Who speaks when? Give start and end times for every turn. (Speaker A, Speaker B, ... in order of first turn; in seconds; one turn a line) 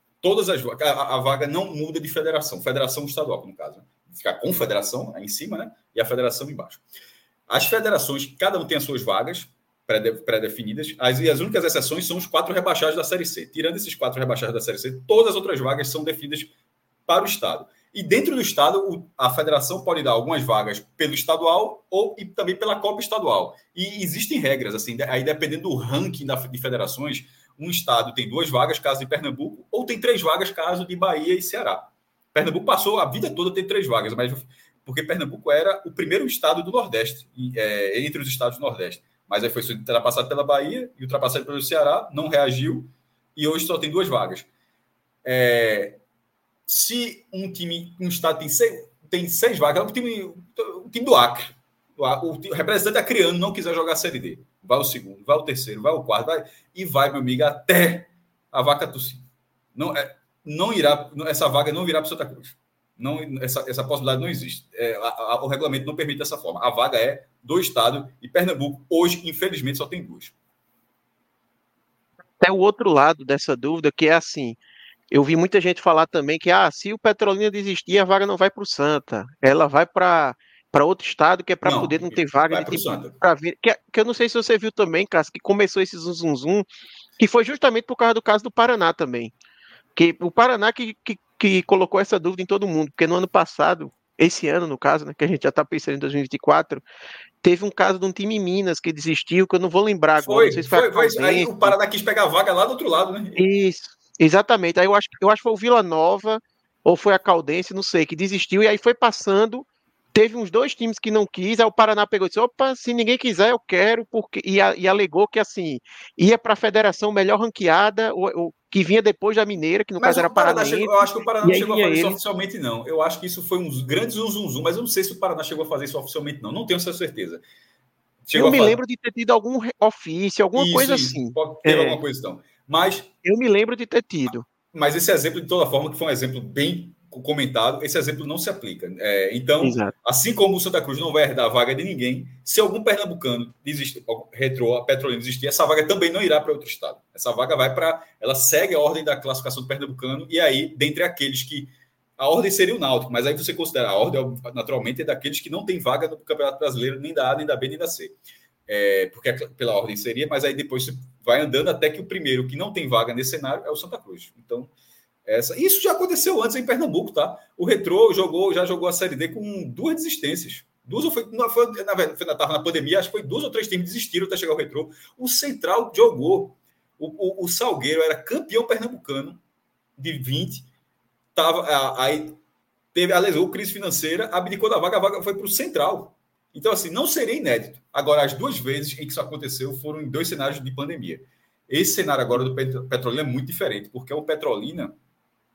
Speaker A: 0.2-6.8
Speaker A: 7.5-16.5
Speaker A: 17.1-44.5
Speaker A: 45.2-46.0
Speaker A: 46.7-59.2
Speaker A: 59.8-70.3
Speaker B: 72.4-74.6
Speaker B: 75.1-86.7
Speaker A: 81.6-83.2
Speaker B: 87.2-89.3
Speaker B: 90.0-96.8
Speaker B: 97.4-101.8
Speaker A: 100.2-103.4
Speaker B: 103.3-122.2
Speaker A: 120.0-127.4
Speaker A: 128.2-128.8
Speaker B: 128.3-132.0
Speaker A: 130.6-133.1
Speaker B: 133.2-134.4
Speaker A: 134.7-158.1
Speaker B: 139.6-139.9
Speaker A: 158.7-164.7
Speaker A: 165.2-179.4
Speaker A: 180.0-180.7
Speaker A: 181.3-182.4
Speaker A: 182.9-194.9